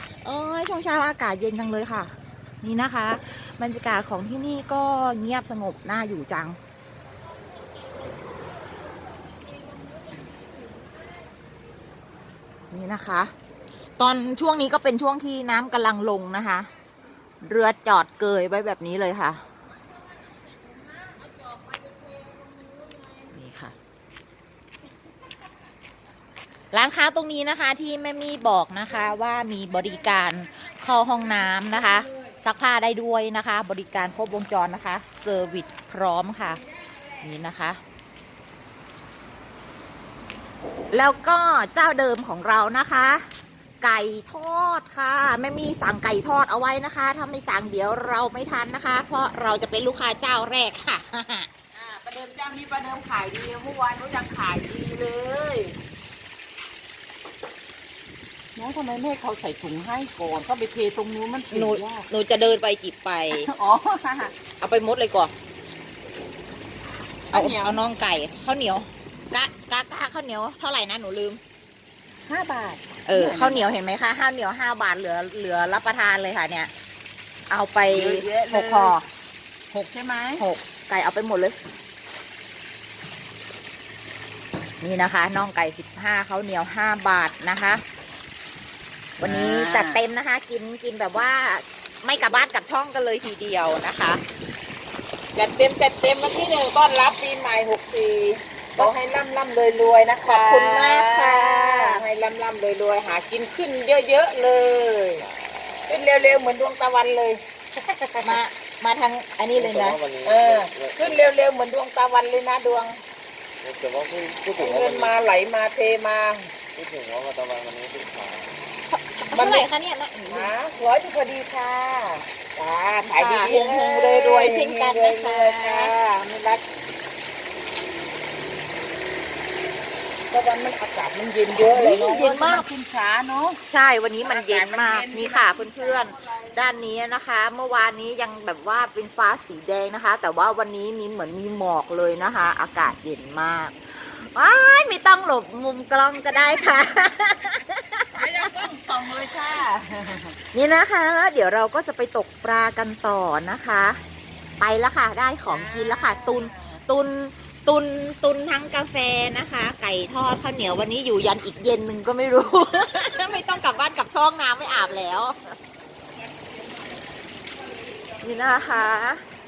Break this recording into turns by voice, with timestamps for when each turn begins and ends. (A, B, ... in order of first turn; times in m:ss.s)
0:00.2-0:06.6 A
0:12.7-0:13.3 A
0:14.0-0:16.7 A
0:17.4-0:19.4 A
0:23.3-0:23.8 A
0:26.7-0:36.6 A
0:37.2-0:37.8 A
0:40.9-0:43.3 A
0:43.8-0:51.5 A
0:51.7-0:55.8 B
0:58.6-1:02.1 B
1:01.5-1:03.5 A
1:03.3-1:04.3 B
1:04.6-1:05.3 A
1:07.3-1:07.8 B
1:07.3-1:11.4 A
1:12.3-1:13.7 B
1:13.1-1:16.7 A
1:17.5-1:19.1 A
1:17.9-1:19.0 B
1:19.7-1:20.4 B
1:20.4-1:21.6 A
1:24.8-1:27.8 A
1:29.2-1:34.2 A
1:29.2-1:30.0 B
1:35.4-1:45.3 B
1:40.3-1:42.0 A
1:45.9-1:48.4 B
1:48.2-1:50.0 A
1:49.6-1:51.2 C
1:50.2-1:53.0 B
1:53.6-1:55.2 C
1:54.6-1:56.5 B
1:56.8-1:58.6 C
1:58.9-2:00.5 A
1:59.3-1:59.6 B
2:00.3-2:06.6 B
2:03.1-2:05.9 A
2:10.3-2:13.6 B
2:11.7-2:12.7 A
2:13.7-2:28.5 A
2:14.2-2:16.5 B
2:28.2-2:30.4 B
2:30.5-2:34.0 A
2:34.6-2:45.5 A
2:35.5-2:36.8 B
2:48.2-2:49.2 A